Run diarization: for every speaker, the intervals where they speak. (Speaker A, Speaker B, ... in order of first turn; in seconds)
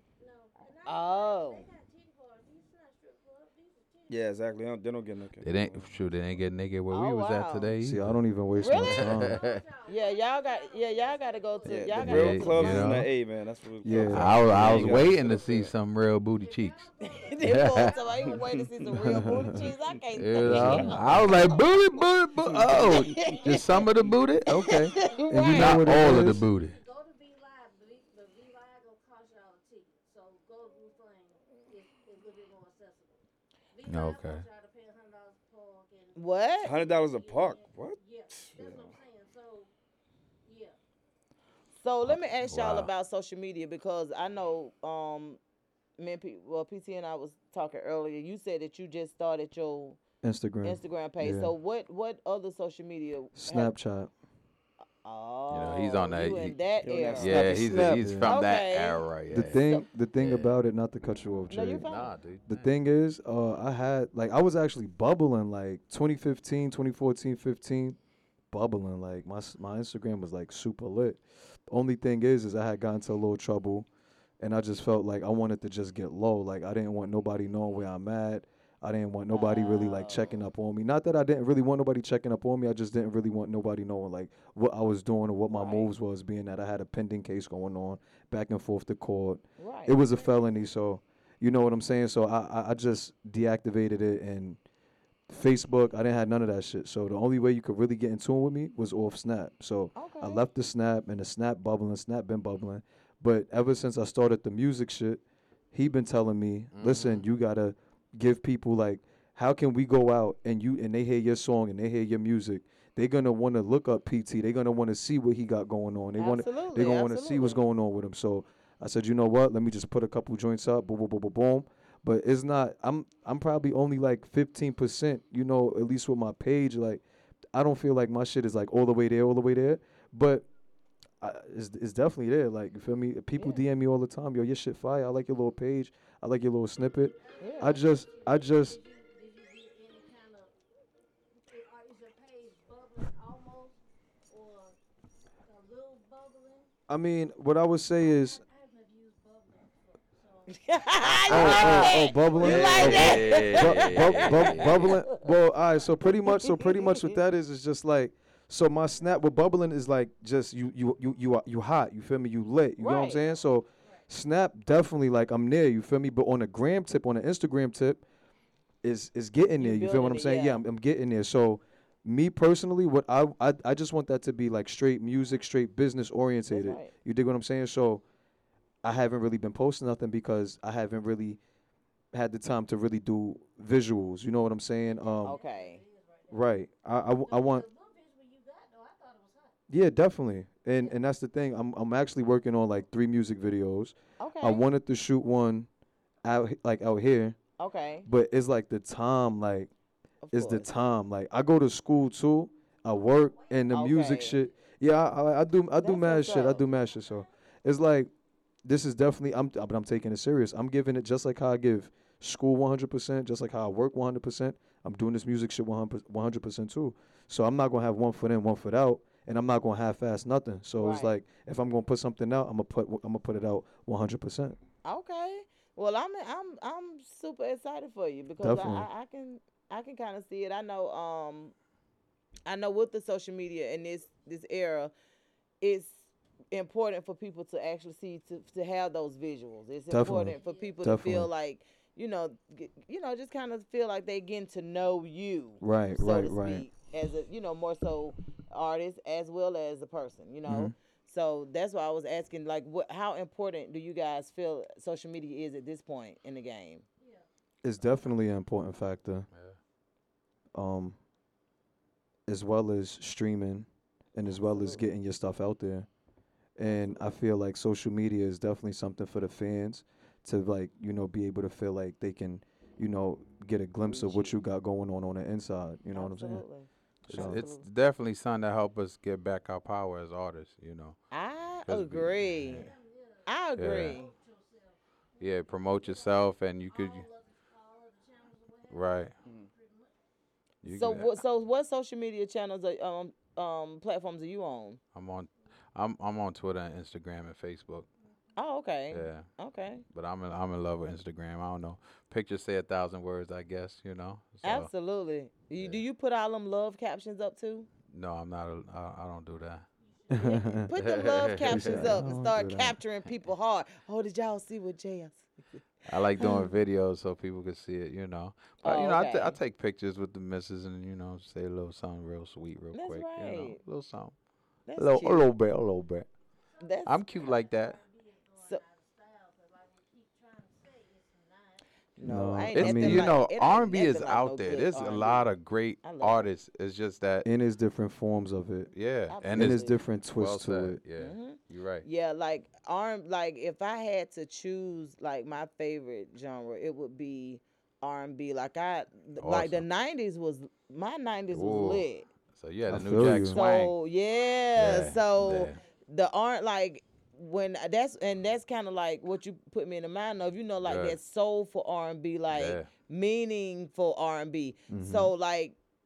Speaker A: 0.2-4.3, 8.6-12.9, 14.9-15.4, 16.4-19.8, 23.3-23.8, 24.9-33.2, 33.7-39.7, 40.4-40.8, 90.0-90.7, 136.9-140.6, 141.3-143.8, 144.3-144.8, 145.5-146.7, 147.9-153.4, 184.7-189.6, 203.2-204.4, 206.0-207.3, 240.0-241.0, 257.0-257.2, 282.3-289.9, 298.0-298.4, 309.8-310.6, 326.5-331.6, 354.1-355.7
Speaker B: 0.9-1.6, 6.9-7.7, 8.6-9.1, 9.9-12.6, 17.0-21.6, 22.8-23.9, 24.5-25.9, 36.1-36.8, 41.7-45.4, 46.0-50.0, 50.6-53.7, 55.0-57.6, 58.2-59.8, 61.5-62.1, 79.3-80.3, 85.5-85.9, 89.6-90.0, 99.9-100.4, 116.2-117.6, 133.4-133.6, 137.4-137.8, 150.5-155.1, 156.2-157.2, 162.8-163.2, 169.6-170.6, 176.5-176.9, 185.2-185.8, 194.2-194.6, 197.6-198.1, 200.2-200.7, 203.7-204.4, 205.8-206.6, 220.8-221.2, 224.8-231.5, 232.4-234.9, 235.6-256.8, 264.2-264.8, 273.9-274.4, 275.9-277.6, 281.1-282.7, 283.2-284.1, 290.7-294.8, 298.4-299.8, 304.4-307.7, 310.2-315.4, 316.2-316.5, 318.6-319.4, 322.7-323.6, 324.7-325.3, 326.6-327.0, 332.0-335.3, 335.8-336.3, 339.1-339.8, 341.0-352.1, 353.3-365.6
Speaker C: 4.1-5.9, 11.6-15.7, 18.2-19.6, 20.5-20.9, 22.5-23.3, 36.6-39.0, 56.8-58.0, 289.2-289.5
Speaker D: 5.4-8.2, 9.0-9.6, 12.0-13.1, 14.1-16.9, 17.4-17.9, 20.1-26.8, 33.9-34.4, 42.1-42.9, 55.5-56.6, 57.2-59.6, 60.2-60.5, 61.8-62.6, 106.7-107.2, 152.4-154.9, 277.1-281.0, 281.7-282.7, 283.6-284.0, 285.2-287.1, 288.7-289.1, 290.6-291.1, 294.9-297.9, 298.9-299.3, 299.9-304.7, 307.9-309.6, 310.8-312.0, 315.9-324.1, 324.8-326.1, 326.9-327.8, 332.5-337.3, 338.7-339.6, 340.1-341.9, 349.2-349.6, 351.3-353.7, 354.6-355.6, 360.6-361.0, 362.3-362.7
Speaker E: 7.8-9.3, 12.6-13.1, 13.8-15.1, 19.0-19.6, 20.5-20.9, 25.2-26.5, 50.2-51.5, 53.3-54.1, 57.5-58.3, 59.3-61.9, 62.5-68.0, 68.5-73.9, 74.4-94.6, 95.3-105.2, 105.7-127.0, 127.5-130.5, 131.2-138.8, 146.9-148.4, 151.2-168.0, 168.8-178.0, 178.8-181.4, 182.1-185.4, 186.3-187.7, 189.7-195.7, 196.2-197.4, 198.0-199.7, 200.3-208.1, 208.6-224.6, 228.4-228.9, 239.9-241.3, 245.6-246.7, 250.4-250.7, 257.6-259.3, 260.5-261.0, 262.3-265.9, 266.6-276.4, 277.1-277.4, 310.1-310.7, 311.4-312.8, 332.0-333.1, 337.2-338.7, 339.3-340.8, 352.7-353.4, 364.7-365.1